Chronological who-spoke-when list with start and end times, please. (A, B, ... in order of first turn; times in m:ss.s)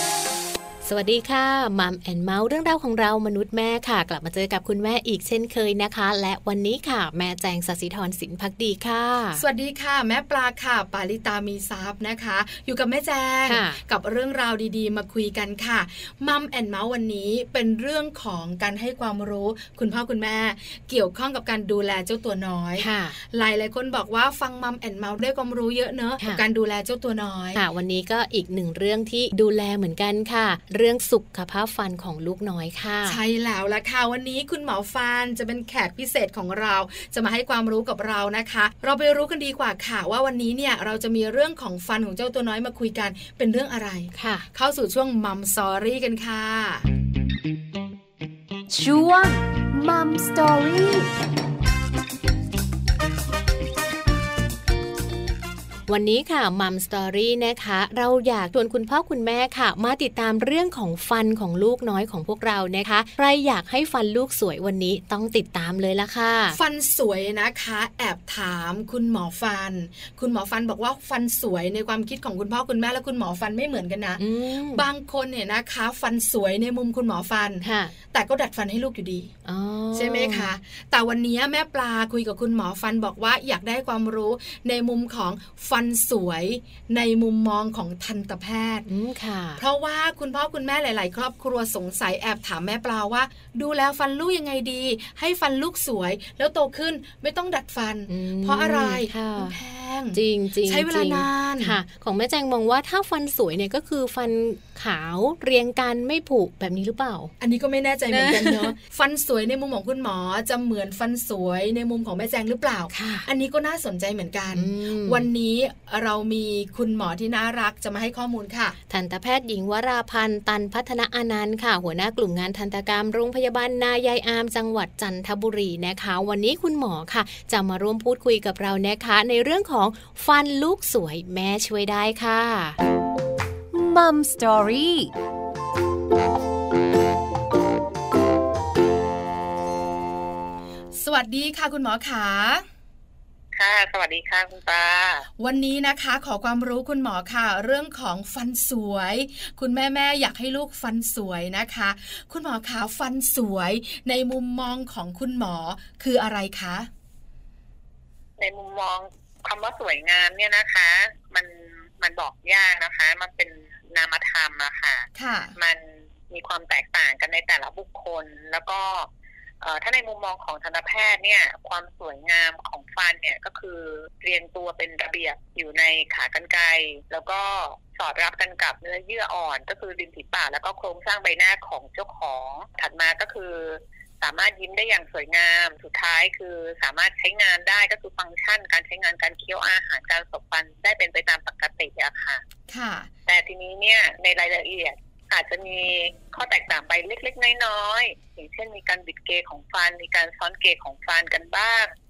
0:00.8-0:09.4 A
0:09.4-0:27.6 B
0:13.4-0:13.8 A
0:22.8-0:23.2 A
0:27.6-0:33.2 A
0:33.1-0:46.8 B
0:44.1-0:44.5 A
0:48.7-0:51.1 C
0:55.9-1:06.6 A
1:06.5-1:19.3 B
1:14.2-1:14.8 A
1:17.6-1:17.9 A
1:19.4-1:20.5 A
1:19.9-1:28.9 B
1:28.9-1:29.6 A
1:29.6-1:41.8 B
1:38.1-1:39.6 A
1:40.1-1:47.3 A
1:47.4-1:58.8 B
1:48.1-1:48.8 A
1:52.9-1:53.3 A
1:54.5-1:55.3 A
1:58.9-2:12.8 A
2:13.7-2:15.1 C
2:21.0-2:22.6 B
2:23.6-2:25.3 D
2:25.4-2:36.9 B
2:38.4-2:49.1 D
2:45.2-2:45.5 B
2:49.6-3:12.4 D
3:12.7-3:13.1 B
3:13.3-3:21.9 D